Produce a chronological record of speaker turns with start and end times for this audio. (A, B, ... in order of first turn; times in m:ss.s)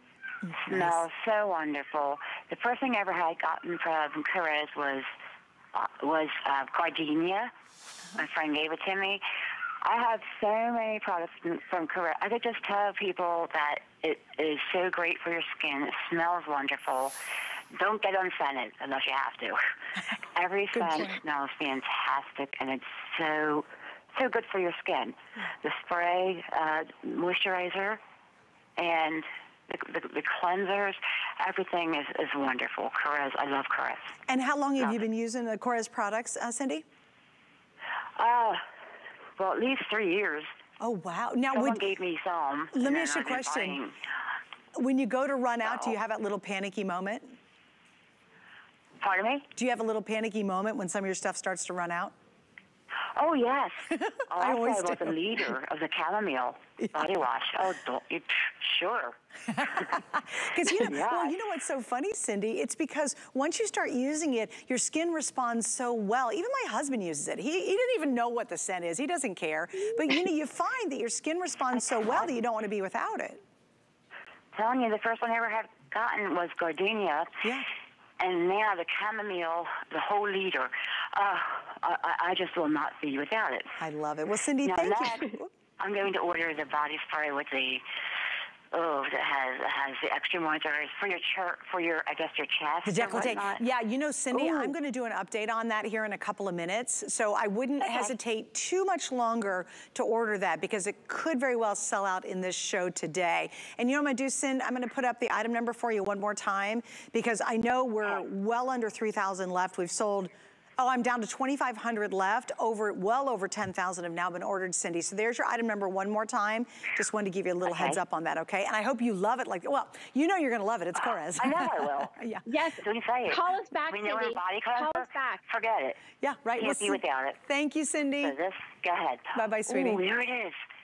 0:00.6-0:05.1 A
0:00.7-0:01.0 B
0:05.7-0:07.5 A
0:08.2-0:09.2 A
0:09.8-0:17.1 A
0:17.7-0:19.6 A
0:20.3-0:28.0 A
0:20.7-0:21.2 B
0:28.8-0:34.2 A
0:34.3-0:36.8 B
0:38.2-0:38.6 A
0:39.4-0:40.5 A
0:40.8-0:41.9 B
0:41.5-0:44.0 A
0:42.7-0:43.8 B
0:44.7-0:47.3 B
0:45.6-0:45.9 A
0:49.0-0:49.5 A
0:49.5-0:52.1 B
0:53.0-1:00.0 A
0:53.9-0:55.2 B
0:59.5-1:13.4 B
1:00.6-1:01.4 A
1:14.5-1:17.5 A
1:17.4-1:17.7 B
1:18.2-1:23.8 A
1:23.8-1:25.5 B
1:24.6-1:27.8 A
1:28.7-1:33.6 A
1:32.8-2:02.4 B
1:34.3-1:34.7 A
1:37.8-1:38.1 A
1:57.6-1:58.0 A
2:01.4-2:02.2 A
2:02.4-2:05.4 C
2:02.8-2:06.0 A
2:06.2-2:08.3 B
2:06.6-2:07.4 A
2:08.2-2:10.6 A
2:09.3-2:10.0 B